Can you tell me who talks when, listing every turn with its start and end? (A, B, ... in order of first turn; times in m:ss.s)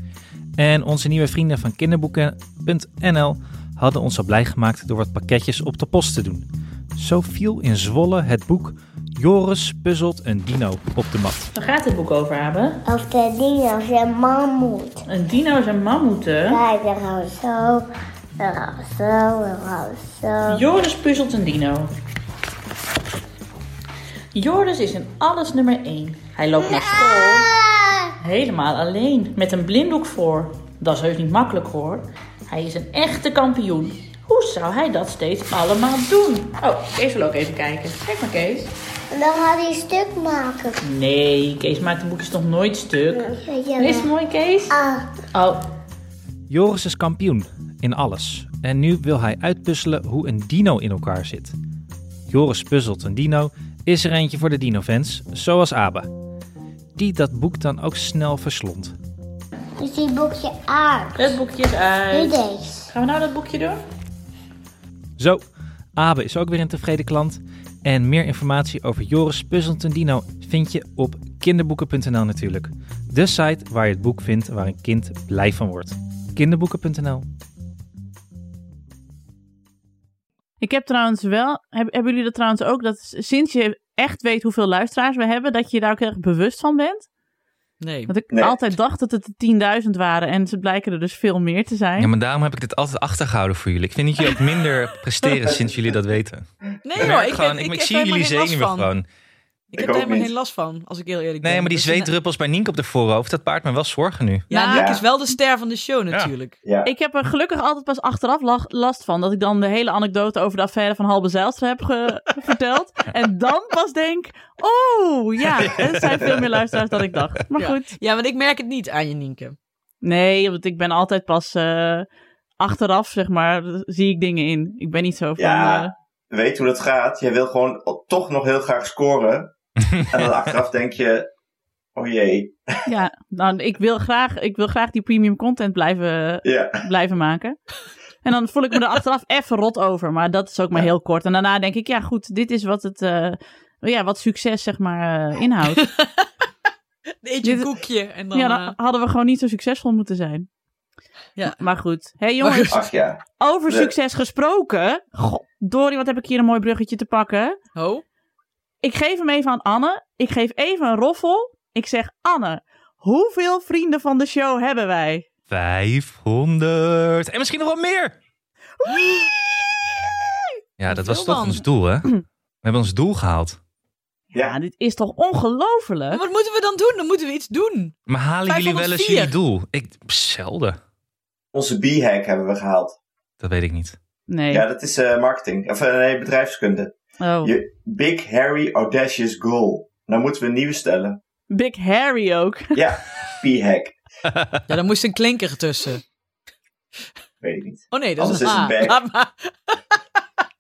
0:00.6-0:11.5 A
0:11.5-0:12.8 B
0:12.8-0:15.0 C
0:15.1-0:16.6 B
0:16.5-0:17.8 C
0:18.4-0:20.6 C
0:20.5-0:21.9 B
0:24.3-0:27.4 B
0:26.6-0:28.1 C
0:28.2-0:38.7 B
0:39.1-0:40.8 C
0:40.8-0:44.7 B
0:43.1-0:44.1 C
0:44.7-0:45.2 C
0:45.3-0:45.6 B
0:46.5-0:51.5 A
0:52.3-0:56.1 A
0:56.9-0:58.9 A
0:59.8-1:01.4 C
1:01.2-1:02.4 B
1:02.1-1:02.9 C
1:02.9-1:03.8 B
1:05.2-1:05.4 A
1:06.0-1:17.3 A
1:20.6-1:27.0 B
1:27.8-1:28.1 D
1:28.1-1:32.1 B
1:32.0-1:39.0 A
1:36.8-1:38.9 D
1:39.7-1:42.1 D
1:39.7-1:40.3 E
1:41.4-1:44.5 A
1:44.5-1:46.6 D
1:44.5-1:44.9 B
1:44.7-1:45.0 E
1:46.6-1:46.9 E
1:46.8-1:57.9 B
1:55.6-1:57.0 A
1:57.5-1:59.6 D
2:00.0-2:02.1 B
2:02.6-2:05.9 B
2:05.4-2:11.3 E
2:11.9-2:12.8 E
2:12.8-2:25.8 B
2:16.4-2:16.8 E
2:25.7-2:26.4 D
2:27.2-2:28.8 D
2:27.4-2:27.7 B
2:28.3-2:30.5 B
2:31.4-2:31.6 D
2:31.5-2:32.8 B
2:32.4-2:32.8 D
2:32.7-2:33.9 E
2:33.4-2:37.6 B
2:37.7-2:38.0 D
2:38.8-2:45.2 B
2:45.5-2:48.2 A
2:48.8-2:49.2 B
2:50.8-2:53.6 A
2:50.9-2:51.6 D
2:54.3-2:54.6 E
2:54.4-2:56.2 B
2:56.1-2:57.9 D
2:58.1-3:00.8 A
2:58.5-2:59.3 D
3:01.5-3:03.0 E
3:03.4-3:04.0 A
3:04.3-3:04.6 B
3:04.5-3:11.2 E
3:07.2-3:07.5 B
3:11.5-3:12.8 B
3:12.7-3:14.0 E
3:14.7-3:16.0 D
3:17.4-3:19.0 E
3:17.9-3:20.0 D